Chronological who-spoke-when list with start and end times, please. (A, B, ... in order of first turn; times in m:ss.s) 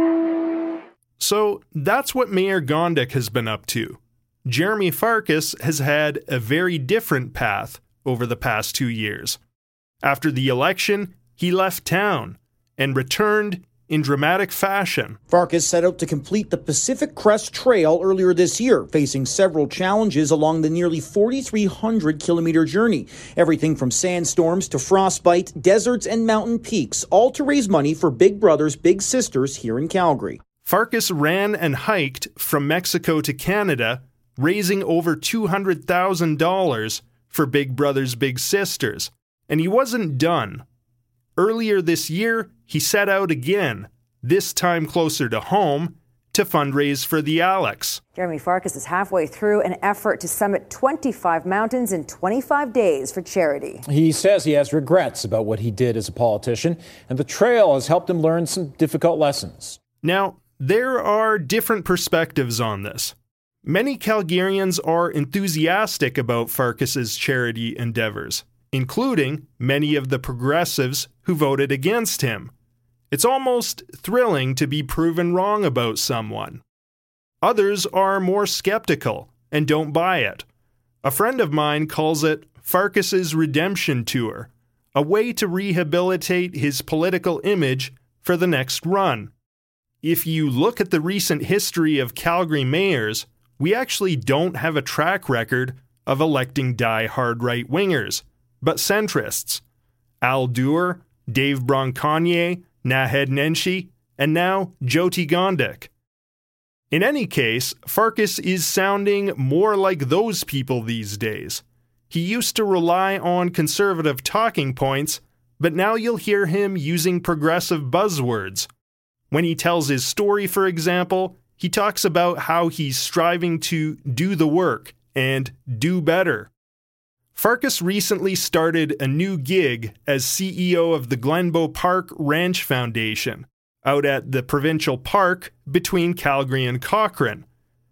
0:01.2-0:09.4 A
0:10.0-0:15.2 A
0:15.3-0:30.4 B
0:30.6-0:40.6 A
0:41.4-0:48.0 A
0:48.1-0:53.8 C
0:53.9-0:59.8 D
1:00.0-1:12.5 A
1:13.1-1:16.6 A
1:17.4-1:20.4 A
1:21.0-1:29.3 A
1:30.0-1:39.6 A
1:40.2-1:45.9 A
1:46.9-1:58.7 A
1:59.3-2:06.5 A
2:07.3-2:17.4 A